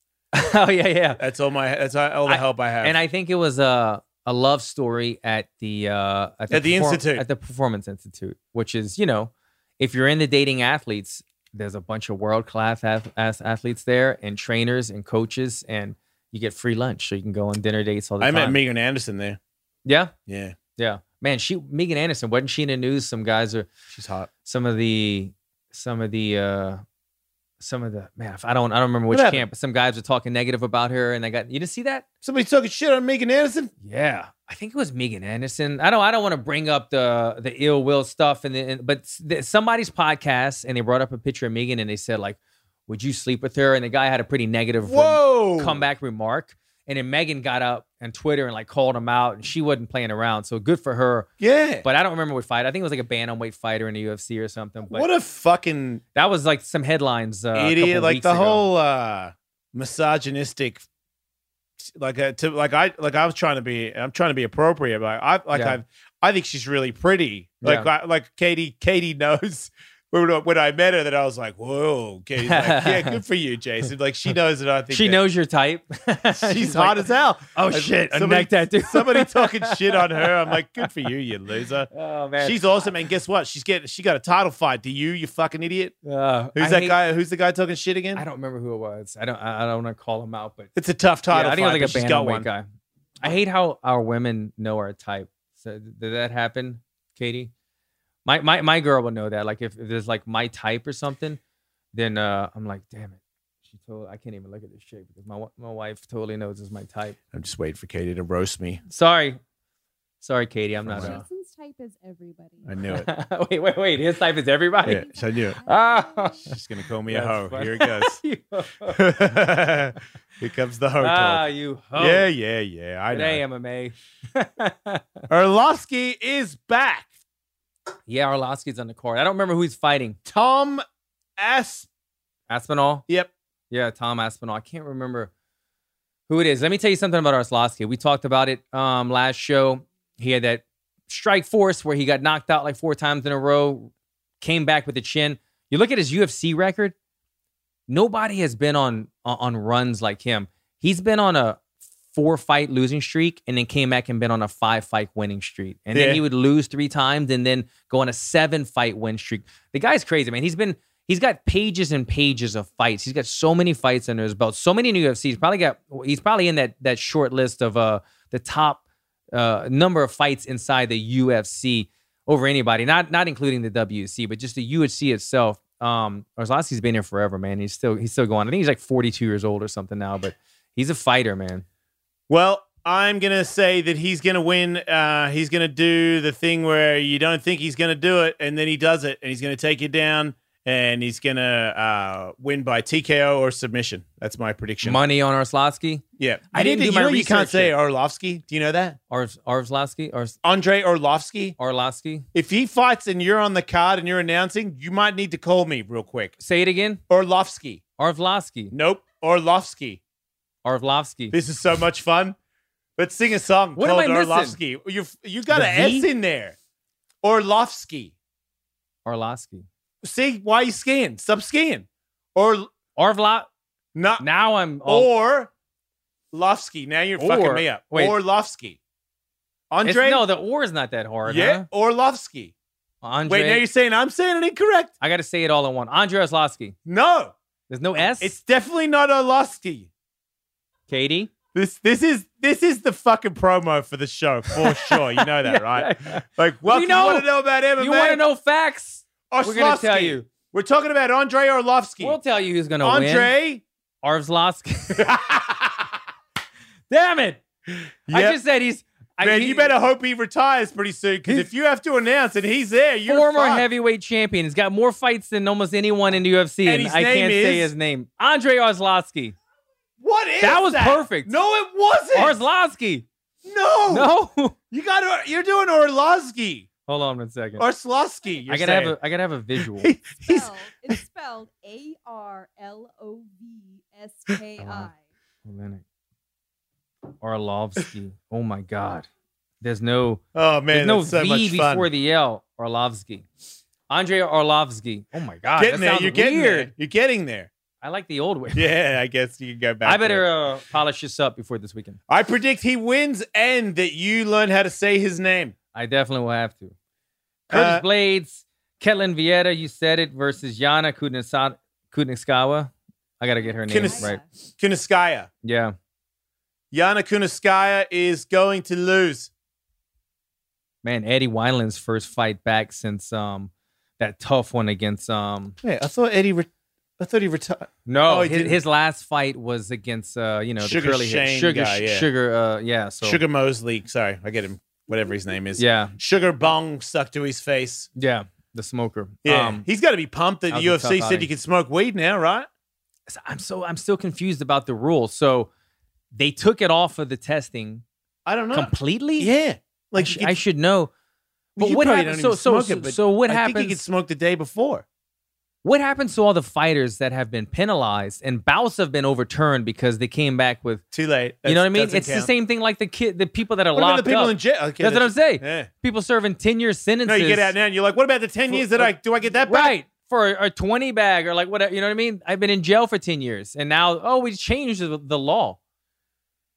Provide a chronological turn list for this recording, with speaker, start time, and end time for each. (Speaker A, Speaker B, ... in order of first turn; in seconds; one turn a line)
Speaker A: 0.3-1.2
Speaker B: 1.2-3.0
Speaker A: 2.3-18.6
Speaker B: 6.5-7.2
Speaker B: 18.2-19.4
Speaker A: 19.9-20.1
Speaker B: 20.3-20.6
Speaker A: 20.8-23.7
Speaker B: 23.9-24.3
Speaker A: 24.4-26.8
Speaker A: 27.6-32.0
Speaker B: 29.1-29.4
Speaker B: 32.2-33.7
Speaker A: 33.8-51.3
Speaker B: 44.9-45.8
Speaker B: 51.4-51.9
Speaker A: 51.8-55.1
Speaker B: 54.9-56.0
Speaker A: 56.1-58.6
Speaker B: 57.5-60.8
Speaker B: 61.8-75.2
Speaker A: 65.5-65.8
Speaker A: 67.6-67.9
Speaker A: 72.4-73.2
Speaker A: 74.9-77.0
Speaker B: 76.4-81.9
Speaker A: 77.5-80.9
Speaker A: 81.9-82.9
Speaker B: 82.4-85.9
Speaker A: 86.0-87.0
Speaker B: 86.5-88.2
Speaker A: 88.1-90.7
Speaker B: 90.7-92.5
Speaker A: 91.3-92.6
Speaker A: 93.2-97.5
Speaker A: 98.2-101.4
Speaker A: 101.9-103.2
Speaker A: 103.7-107.2
Speaker B: 107.3-108.8
Speaker A: 108.9-109.4
Speaker A: 110.2-111.2
Speaker B: 110.8-111.2
Speaker C: 111.0-112.8
Speaker B: 112.6-113.1
Speaker A: 112.9-115.1
Speaker B: 114.8-115.6
Speaker C: 114.9-116.5
Speaker A: 115.6-116.5
Speaker B: 116.5-118.2
Speaker A: 117.1-119.3
Speaker B: 118.8-121.4
Speaker A: 121.0-122.3
Speaker B: 122.0-123.4
Speaker A: 123.1-125.2
Speaker B: 125.3-127.1
Speaker A: 128.1-130.2
Speaker B: 130.2-130.8
Speaker B: 131.4-131.9
Speaker A: 132.5-133.0
Speaker A: 133.7-135.3
Speaker A: 136.3-146.9
Speaker A: 147.9-151.6
Speaker A: 152.1-168.8
Speaker B: 155.9-156.2
Speaker A: 169.3-181.6
Speaker B: 182.3-195.0
Speaker A: 194.8-197.7
Speaker B: 196.2-199.0
Speaker A: 199.1-200.3
Speaker B: 200.4-201.6
Speaker A: 201.6-202.2
Speaker B: 202.3-206.3
Speaker A: 206.4-207.0
Speaker B: 207.1-207.8
Speaker A: 208.0-208.7
Speaker B: 208.7-210.0
Speaker A: 210.6-211.3
Speaker B: 211.3-212.3
Speaker B: 213.0-216.6
Speaker A: 213.8-214.6
Speaker A: 215.5-216.1
Speaker B: 217.2-218.1
Speaker A: 219.0-219.7
Speaker B: 220.0-222.7
Speaker A: 222.9-223.5
Speaker B: 223.9-224.2
Speaker A: 224.2-225.1
Speaker B: 224.8-225.5
Speaker B: 226.3-228.8
Speaker A: 227.2-228.2
Speaker B: 229.7-230.2
Speaker A: 229.8-231.7
Speaker B: 231.2-232.5
Speaker A: 233.0-233.6
Speaker B: 233.3-234.9
Speaker A: 235.0-236.8
Speaker B: 236.8-237.3
Speaker A: 237.7-238.3
Speaker B: 238.2-239.9
Speaker A: 240.9-241.3
Speaker B: 241.5-248.2
Speaker A: 244.6-250.3
Speaker B: 249.3-252.2
Speaker A: 252.0-253.3
Speaker B: 252.8-253.6
Speaker A: 254.0-255.1
Speaker B: 254.9-255.9
Speaker A: 256.9-257.4
Speaker B: 258.1-258.4
Speaker A: 258.1-259.7
Speaker B: 259.2-263.7
Speaker A: 263.1-269.3
Speaker B: 266.6-267.7
Speaker B: 270.0-272.4
Speaker A: 270.4-271.3
Speaker A: 272.1-273.1
Speaker B: 273.4-274.1
Speaker A: 273.9-274.5
Speaker B: 274.7-276.7
Speaker A: 276.9-277.6
Speaker B: 277.6-279.0
Speaker A: 278.5-279.9
Speaker B: 279.6-280.5
Speaker C: 280.2-285.0
Speaker A: 284.6-284.9
Speaker A: 285.4-285.8
Speaker A: 287.2-289.1
Speaker A: 289.6-293.2
Speaker B: 290.3-291.9
Speaker A: 293.9-296.7
Speaker B: 295.6-297.5
Speaker A: 297.8-298.7
Speaker B: 298.6-300.2
Speaker A: 299.8-302.0
Speaker B: 302.1-305.5
Speaker A: 305.7-306.7
Speaker B: 307.5-307.8
Speaker A: 307.5-314.2
Speaker C: 313.4-314.3
Speaker B: 313.6-315.3
Speaker A: 315.4-315.7
Speaker B: 316.7-319.3
Speaker A: 320.8-325.6
Speaker B: 325.6-326.5
Speaker B: 327.0-328.6
Speaker A: 327.9-333.2
Speaker B: 330.6-332.1
Speaker B: 333.0-337.9
Speaker A: 335.6-335.9
Speaker A: 337.9-339.6
Speaker B: 339.2-342.5
Speaker A: 340.5-341.3
Speaker A: 343.1-345.5
Speaker A: 346.1-347.8
Speaker B: 348.2-350.4
Speaker A: 348.5-349.3
Speaker A: 350.0-350.9
Speaker A: 351.6-353.8
Speaker B: 351.6-354.8
Speaker A: 355.6-360.8
Speaker B: 360.9-362.3
Speaker A: 361.4-367.5
Speaker B: 363.7-365.7
Speaker B: 367.1-369.7
Speaker A: 368.5-375.6